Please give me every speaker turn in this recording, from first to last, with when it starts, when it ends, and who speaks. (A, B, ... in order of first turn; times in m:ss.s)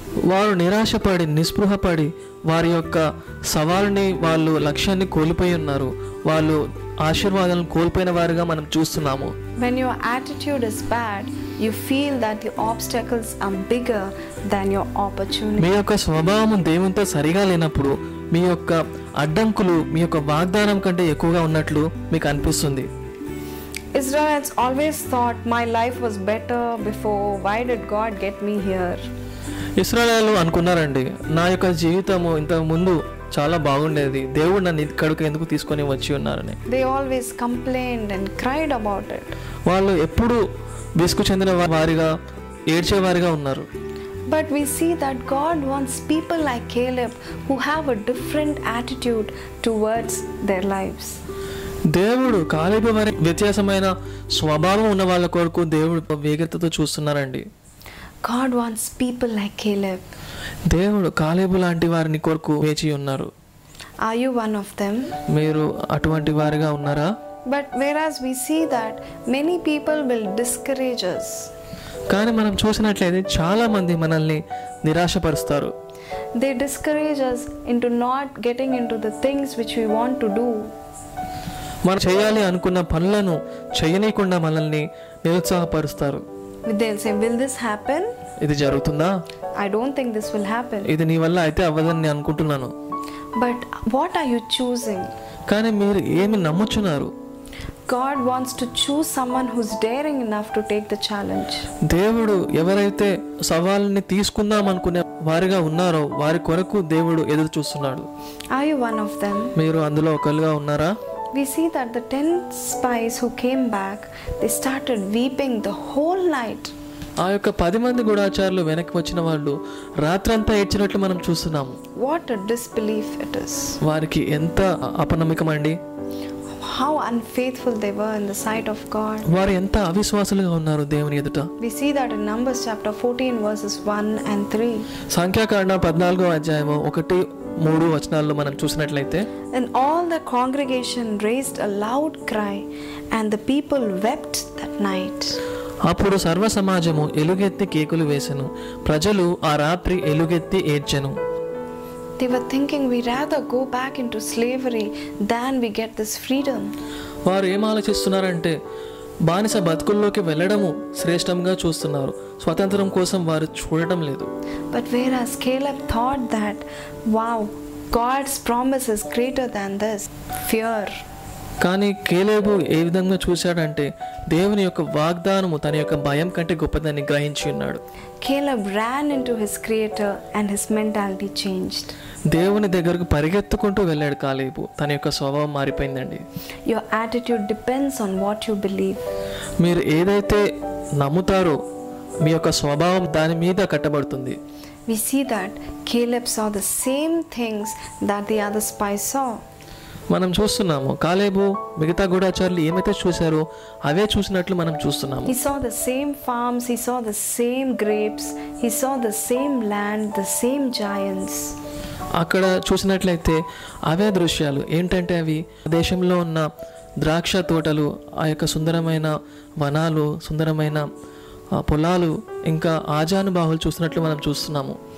0:00.3-0:09.3 A
0:09.6-0:15.7 B
0:15.6-0:22.9 A
0:23.9-0:29.0 B
0:29.8-0:36.6 A
0:36.7-0:39.3 B
0:39.7-0:40.4 A
0:41.0-0:42.1 A
0:42.7-0:43.7 A
0:44.3-0:51.2 B
0:51.9-0:57.5 A
0:58.2-1:00.0 B
1:00.7-1:03.3 A
1:04.0-1:05.2 B
1:05.3-1:07.1 A
1:07.5-1:11.5 B
1:12.1-1:15.7 A
1:16.4-1:20.7 B
1:21.8-1:26.2 A
1:26.6-1:28.1 B
1:28.4-1:29.1 A
1:29.6-1:30.9 B
1:30.8-1:32.7 A
1:33.4-1:35.1 B
1:35.5-1:37.1 A
1:37.9-1:41.7 B
1:41.8-1:48.1 A
1:48.5-1:49.6 B
1:49.6-1:50.9 A
1:51.3-1:56.7 B
1:57.2-2:01.8 A
2:02.0-2:03.8 B
2:03.8-2:05.8 A
2:06.5-2:09.3 B
2:09.3-2:11.5 A
2:11.6-2:14.9 B
2:15.1-2:19.2 A
2:19.5-2:25.4 B
2:25.8-2:31.2 A
2:32.2-2:36.7 B
2:37.3-2:38.6 A
2:39.3-2:44.3 A
2:44.7-2:51.0 B
2:51.6-2:57.8 A
2:58.2-3:01.9 B
3:02.3-3:06.2 A
3:06.6-3:09.1 B
3:09.6-3:10.4 A
3:11.0-3:11.6 A
3:12.2-3:14.4 A
3:14.9-3:19.4 B
3:20.1-3:25.4 A
3:25.2-3:31.6 B
3:32.2-3:36.4 A
3:37.0-3:40.8 A
3:41.5-3:44.8 A